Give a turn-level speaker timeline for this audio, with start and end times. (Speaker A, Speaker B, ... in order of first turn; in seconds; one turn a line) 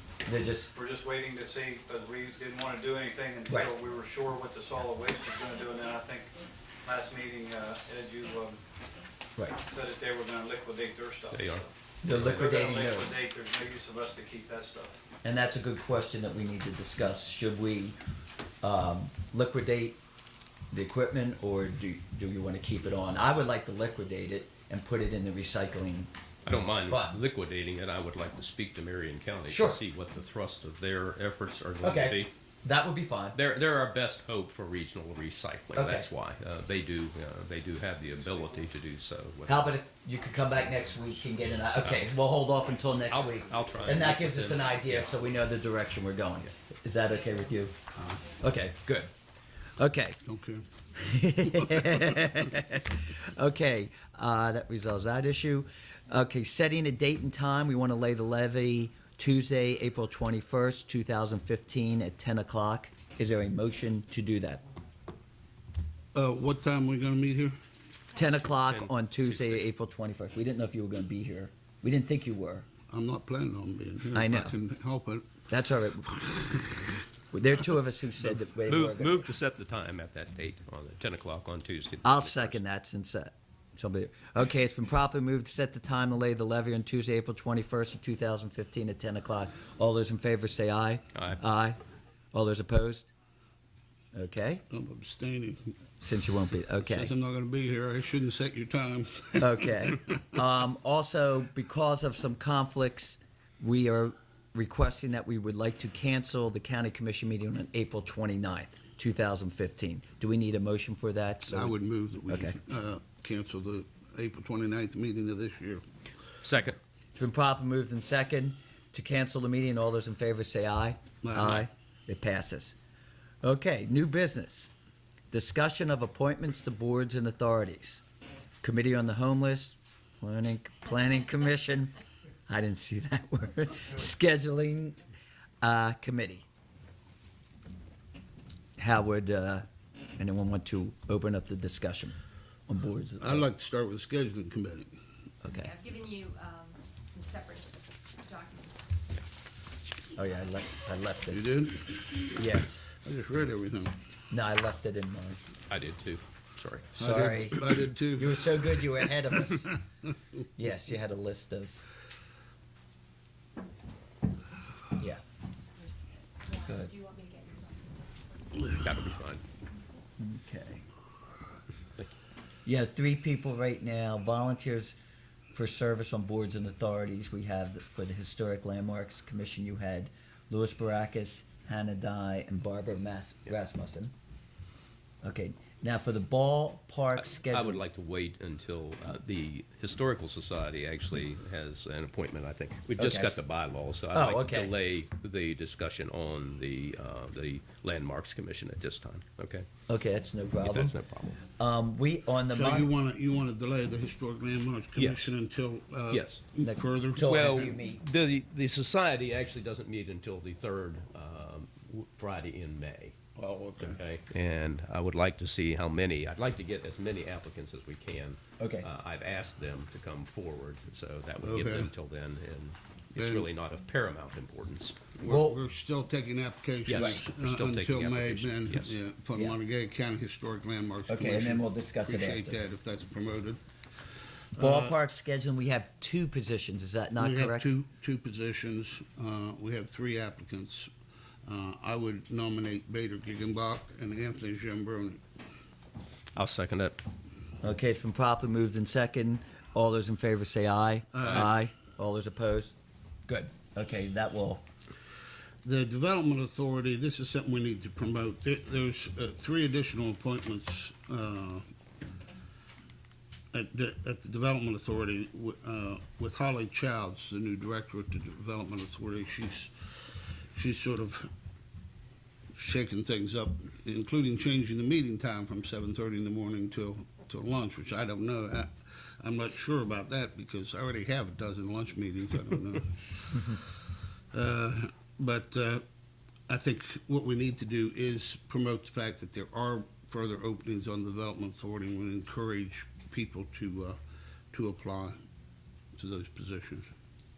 Speaker A: 0.2-0.7
Speaker B: 0.7-6.3
Speaker B: 6.8-8.6
Speaker B: 9.7-15.0
Speaker C: 11.3-12.5
Speaker A: 12.0-13.1
Speaker A: 15.2-18.0
Speaker A: 18.6-20.0
Speaker A: 20.7-26.1
Speaker C: 26.4-32.3
Speaker A: 26.8-27.2
Speaker A: 29.5-29.8
Speaker A: 31.8-33.4
Speaker C: 33.3-39.8
Speaker A: 35.7-36.1
Speaker A: 39.5-47.7
Speaker C: 41.8-42.1
Speaker C: 43.1-45.0
Speaker D: 47.9-48.2
Speaker A: 48.4-49.1
Speaker A: 49.8-50.2
Speaker D: 50.2-50.6
Speaker A: 51.0-64.6
Speaker D: 66.1-67.5
Speaker A: 68.1-72.7
Speaker C: 68.5-69.7
Speaker D: 72.9-75.5
Speaker A: 74.1-74.5
Speaker A: 75.5-76.2
Speaker D: 76.1-77.0
Speaker A: 77.3-79.3
Speaker C: 78.3-82.6
Speaker A: 82.0-91.8
Speaker C: 91.1-91.4
Speaker A: 92.3-93.1
Speaker A: 94.1-94.6
Speaker D: 94.7-95.7
Speaker A: 96.0-97.1
Speaker D: 96.8-99.9
Speaker A: 99.4-111.7
Speaker D: 111.5-115.8
Speaker A: 112.3-112.6
Speaker C: 116.4-116.8
Speaker A: 117.1-122.8
Speaker D: 121.2-121.7
Speaker A: 123.4-124.7
Speaker A: 125.3-128.0
Speaker A: 128.6-131.9
Speaker A: 132.5-135.0
Speaker A: 135.6-136.4
Speaker A: 138.8-139.7
Speaker A: 140.2-142.2
Speaker A: 142.7-143.5
Speaker D: 143.2-144.9
Speaker A: 145.4-145.7
Speaker E: 145.4-149.0
Speaker A: 150.2-151.4
Speaker D: 151.3-152.4
Speaker A: 152.3-152.9
Speaker D: 152.9-153.9
Speaker A: 154.3-155.4
Speaker C: 155.7-156.9
Speaker A: 156.9-159.7
Speaker D: 157.0-159.1
Speaker A: 160.6-161.8
Speaker E: 165.6-168.8
Speaker A: 166.7-166.9
Speaker C: 168.7-169.4
Speaker A: 170.2-170.8
Speaker A: 172.7-174.9
Speaker A: 175.5-184.1
Speaker A: 185.2-187.8
Speaker C: 187.2-199.7
Speaker A: 193.0-193.3
Speaker A: 194.1-194.7
Speaker A: 199.9-200.9
Speaker C: 200.6-201.4
Speaker A: 201.5-202.9
Speaker D: 202.5-207.7
Speaker C: 204.9-205.3
Speaker C: 206.1-206.4
Speaker A: 206.6-208.0
Speaker C: 207.2-213.2
Speaker D: 213.3-214.0
Speaker C: 213.8-225.0
Speaker A: 218.6-218.9
Speaker D: 221.4-221.9
Speaker D: 223.2-223.5
Speaker D: 225.2-233.6
Speaker A: 225.2-225.6
Speaker C: 226.9-228.9
Speaker A: 231.1-232.6
Speaker D: 234.5-234.9
Speaker A: 234.6-237.7
Speaker D: 237.2-240.9
Speaker D: 241.4-245.2
Speaker C: 246.3-247.0
Speaker A: 247.6-254.6
Speaker D: 251.1-251.5
Speaker D: 255.6-261.7
Speaker D: 263.5-271.3
Speaker D: 272.6-285.8
Speaker D: 286.5-294.0
Speaker D: 294.5-295.2
Speaker D: 296.0-296.9